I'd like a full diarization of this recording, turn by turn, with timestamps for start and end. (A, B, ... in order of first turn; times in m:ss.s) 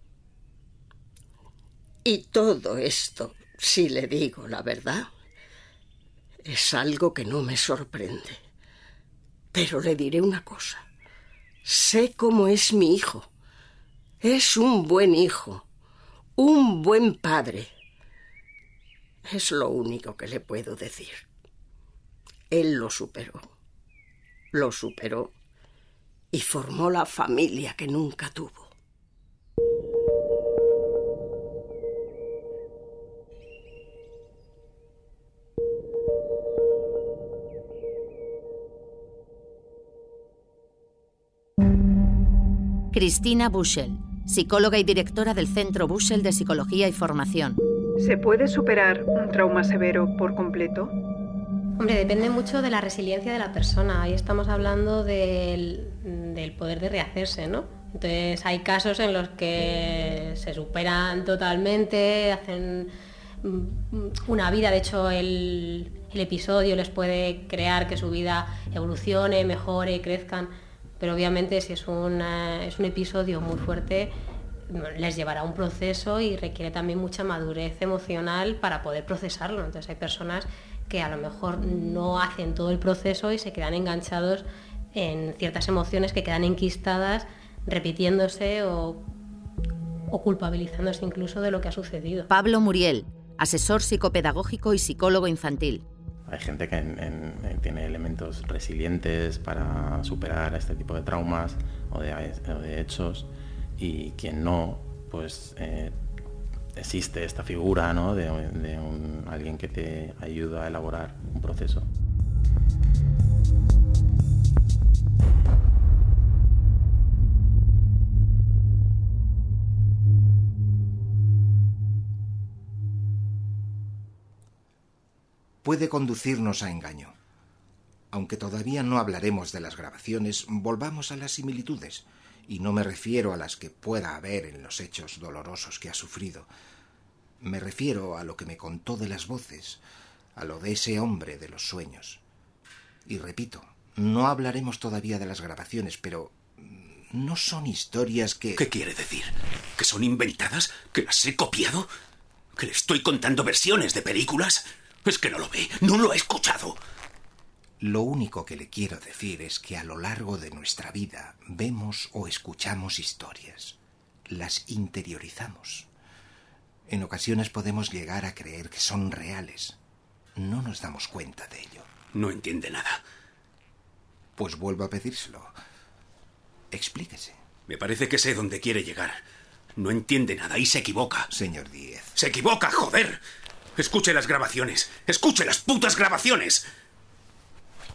0:02.0-0:05.1 A
0:06.5-0:08.4 A
0:09.5-0:10.8 A
0:11.6-0:13.3 A
0:14.2-0:15.6 A
0:16.4-0:17.7 A
0:19.3-0:21.2 A
0:22.5-0:23.4 A
0:24.5-0:25.3 A
0:26.3-0:28.7 A
0:42.9-0:47.6 B
0:48.0-0:50.9 C
0:51.8-1:02.9 D
1:03.4-1:14.1 D
1:14.7-1:29.0 D
1:30.1-1:32.3 D
1:32.3-1:35.8 B
1:36.3-1:46.0 E
1:46.8-1:51.9 E
2:05.6-2:07.1 F
2:08.1-2:16.5 F
2:17.4-2:19.8 F
2:20.3-2:22.2 F
2:23.0-2:28.6 F
2:28.6-2:31.9 G
2:32.6-2:36.8 G
2:37.8-2:43.8 F
2:44.3-2:45.9 F
2:46.9-2:49.8 F
2:50.4-2:51.9 F
2:52.1-2:53.0 G
2:54.4-2:55.5 F
2:56.7-2:57.4 F
2:57.7-2:59.2 G
2:59.8-3:01.3 G
3:01.3-3:02.1 F
3:02.1-3:03.2 G
3:03.8-3:06.6 G